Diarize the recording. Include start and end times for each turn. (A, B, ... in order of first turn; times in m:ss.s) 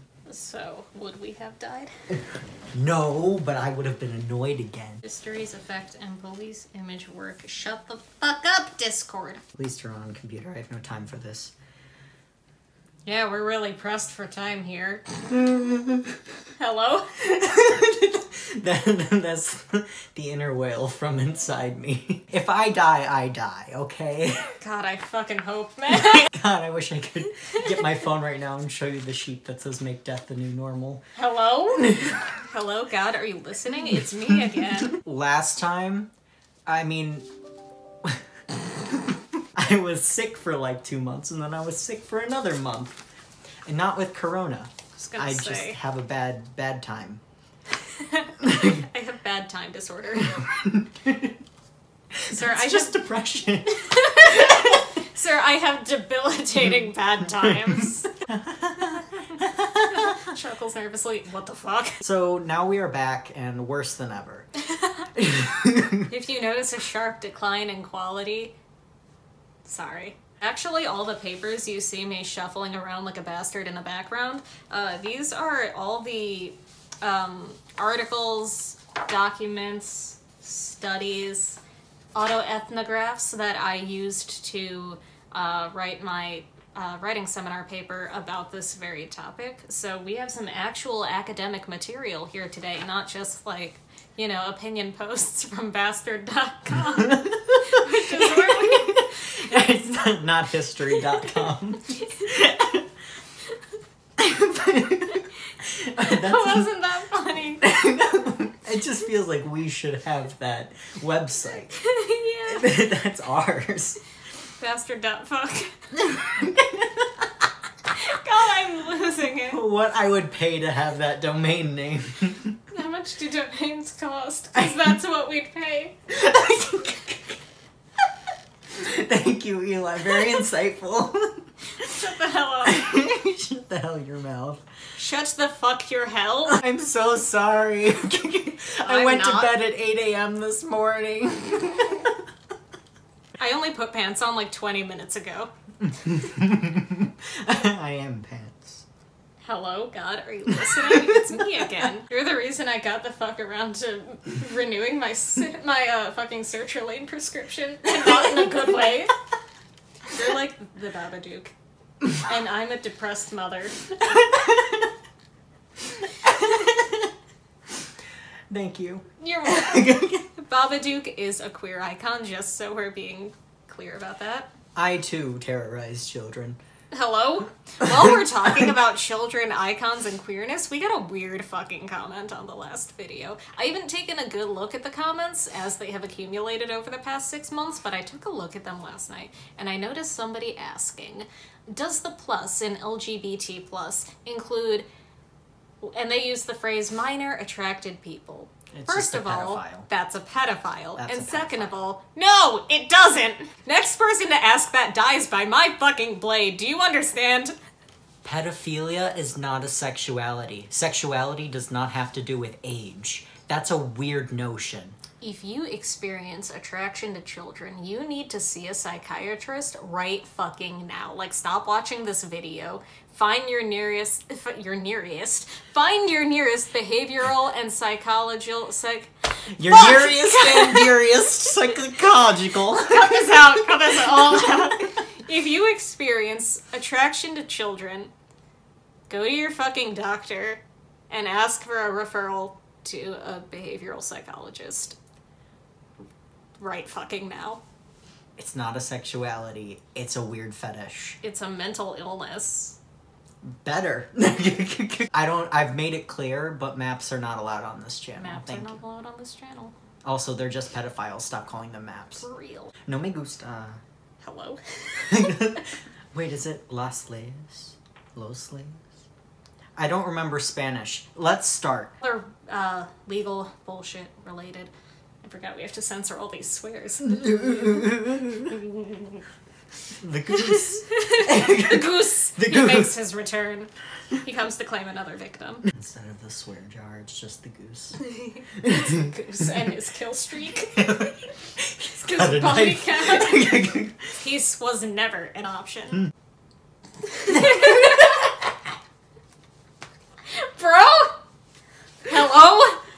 0:00.2-0:01.9 A
0:02.7-0:05.0 B
0:05.0-0:09.4 A
0:09.6-0:11.5 B
0:13.0-0:15.2 A
0:15.4-0:16.1 B
0:16.6-0:17.1 A
0:17.2-0:24.5 B
0:24.6-0:26.3 A
0:26.1-0:31.0 B
0:31.2-0:35.0 A
0:31.8-0:32.2 B
0:34.6-0:36.1 B
0:36.7-0:37.3 B
0:38.9-0:43.0 B
0:43.6-0:47.2 B
0:45.0-0:45.8 A
0:47.9-0:50.5 A
0:48.4-0:48.8 B
0:50.3-0:51.3 B
0:52.1-0:54.6 B
0:52.3-0:53.0 A
0:53.7-0:58.1 A
0:58.3-1:00.3 B
0:59.2-1:02.0 A
1:02.0-1:04.5 B
1:04.7-1:05.1 A
1:05.2-1:06.1 B
1:06.1-1:08.5 A
1:09.6-1:21.6 A
1:22.1-1:40.0 A
1:37.0-1:42.9 B
1:40.9-1:41.4 A
1:44.2-1:46.6 B
1:45.9-1:47.7 A
1:47.6-1:51.8 B
1:51.7-1:52.7 A
1:52.5-1:54.0 B
1:54.6-1:55.8 A
1:55.9-1:57.3 B
1:57.9-1:59.6 A
1:59.4-2:02.6 B
2:02.7-2:06.9 A
2:06.2-2:07.1 B
2:08.7-2:11.9 B
2:11.8-2:13.0 A
2:12.6-2:14.6 B
2:15.0-2:16.6 A
2:16.5-2:22.1 B
2:18.8-2:19.5 A
2:23.4-2:25.5 A
2:25.8-2:28.8 B
2:29.4-2:39.1 A
2:30.5-2:31.6 B
2:40.1-2:41.5 A
2:42.1-2:44.4 A
2:46.4-2:46.8 B
2:48.5-2:50.2 B
2:49.2-2:54.5 A
2:54.7-2:56.6 B
2:56.9-3:14.8 A
3:15.8-3:27.5 A
3:18.7-3:19.9 B
3:21.0-3:21.8 B
3:28.2-3:35.0 B
3:35.2-3:51.0 A
3:49.5-3:53.7 B
3:52.7-3:58.1 A
3:59.1-4:05.0 A
4:06.6-4:07.6 A
4:08.4-4:11.2 B
4:11.2-4:12.8 A
4:13.4-4:18.8 B
4:18.2-4:19.7 A
4:20.0-4:22.2 B
4:22.2-4:22.7 A
4:22.8-4:23.8 B
4:24.2-4:25.4 A
4:25.0-4:28.9 B
4:29.8-4:31.9 B
4:32.0-4:34.7 A
4:35.2-4:39.1 A
4:37.1-4:38.6 B
4:40.0-4:42.9 B
4:40.4-4:43.7 A
4:44.2-4:45.6 A
4:45.7-4:48.0 B
4:48.0-4:51.0 A
4:48.6-4:49.1 B
4:50.8-4:54.2 B
4:52.0-4:53.6 A
4:54.2-4:56.1 A
4:57.1-4:58.1 A
4:57.4-4:58.1 B
5:00.3-5:01.2 A
5:02.1-5:02.8 A